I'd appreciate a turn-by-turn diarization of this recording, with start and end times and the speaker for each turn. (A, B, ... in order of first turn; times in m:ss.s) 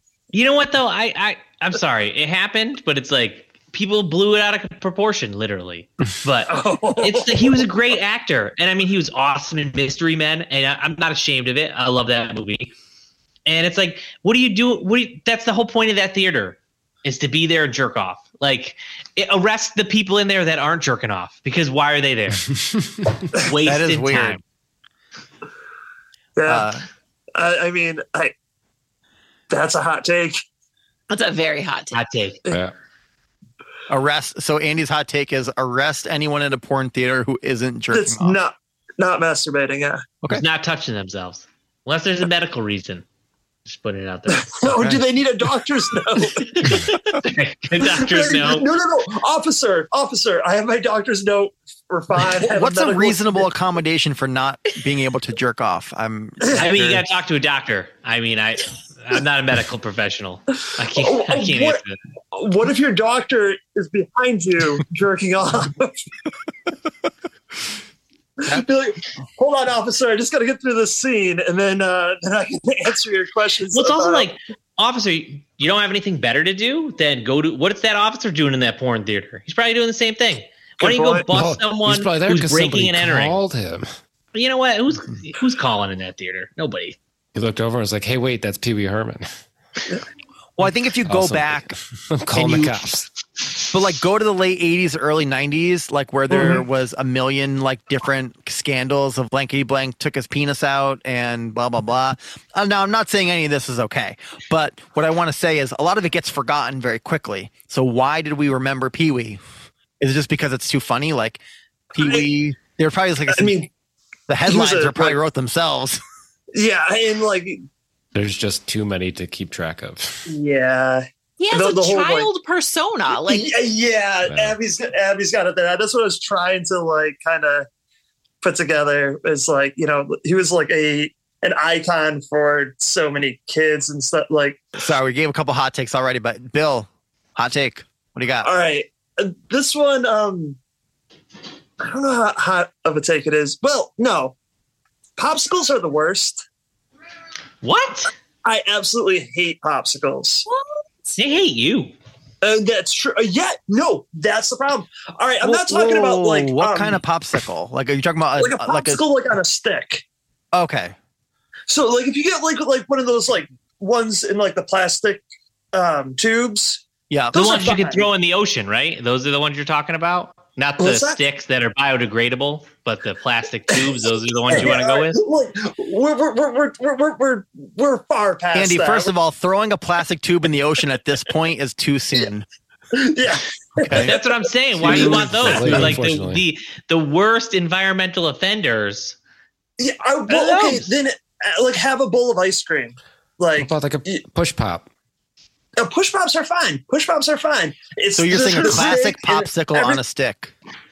0:00.3-0:12.7 A
0:06.5-0:07.7 B
0:13.5-0:22.5 A
0:23.3-0:24.4 A
0:23.6-0:24.4 C
0:26.4-0:26.7 B
0:26.5-0:26.8 C
0:27.4-0:28.3 B
0:29.5-0:30.4 B
0:31.1-0:32.0 D
0:31.9-0:32.4 A
0:32.5-0:32.7 E
0:33.9-0:38.4 C
0:37.9-0:40.1 B
0:40.3-0:43.0 A
0:43.7-0:44.7 A
0:44.3-0:46.9 B
0:44.7-0:45.0 C
0:46.6-0:48.7 A
0:47.8-0:53.5 B
0:52.4-0:57.0 C
0:56.5-1:02.0 A
1:01.0-1:01.8 B
1:02.3-1:06.0 B
1:08.4-1:14.3 B
1:13.7-1:23.4 A
1:20.8-1:21.3 B
1:21.3-1:23.9 E
1:24.3-1:27.0 A
1:27.4-1:29.3 E
1:30.6-1:31.7 C
1:31.1-1:33.1 E
1:32.3-1:32.8 C
1:33.7-1:49.4 C
1:36.3-1:36.6 B
1:50.0-1:51.4 C
1:51.9-1:53.6 C
1:52.0-1:52.3 B
1:53.3-1:53.7 B
1:54.3-1:56.0 C
1:54.5-1:55.2 B
1:56.5-1:57.6 B
1:58.1-2:00.3 E
2:00.3-2:02.3 B
2:01.4-2:03.5 D
2:03.1-2:07.7 B
2:04.3-2:04.6 E
2:08.4-2:14.6 B
2:14.8-2:18.5 C
2:18.4-2:20.6 B
2:21.8-2:24.4 B
2:25.2-2:26.4 B
2:27.6-2:28.1 A
2:28.4-2:30.4 B
2:31.2-2:31.9 A
2:32.4-2:37.0 B
2:35.4-2:39.0 C
2:38.4-2:40.0 B
2:40.5-2:41.0 C
2:41.7-2:46.8 B
2:47.1-2:47.4 C
2:47.3-2:48.1 B
2:47.3-2:55.2 A
2:50.8-2:51.2 B
2:54.5-2:59.1 B
2:58.5-3:02.5 C
3:03.0-3:06.0 B
3:03.8-3:04.1 C
3:04.0-3:09.2 A
3:04.8-3:06.4 E
3:05.7-3:06.0 C
3:09.8-3:14.2 B
3:10.3-3:10.9 A
3:13.6-3:14.9 E
3:15.8-3:20.0 B
3:18.2-3:20.5 C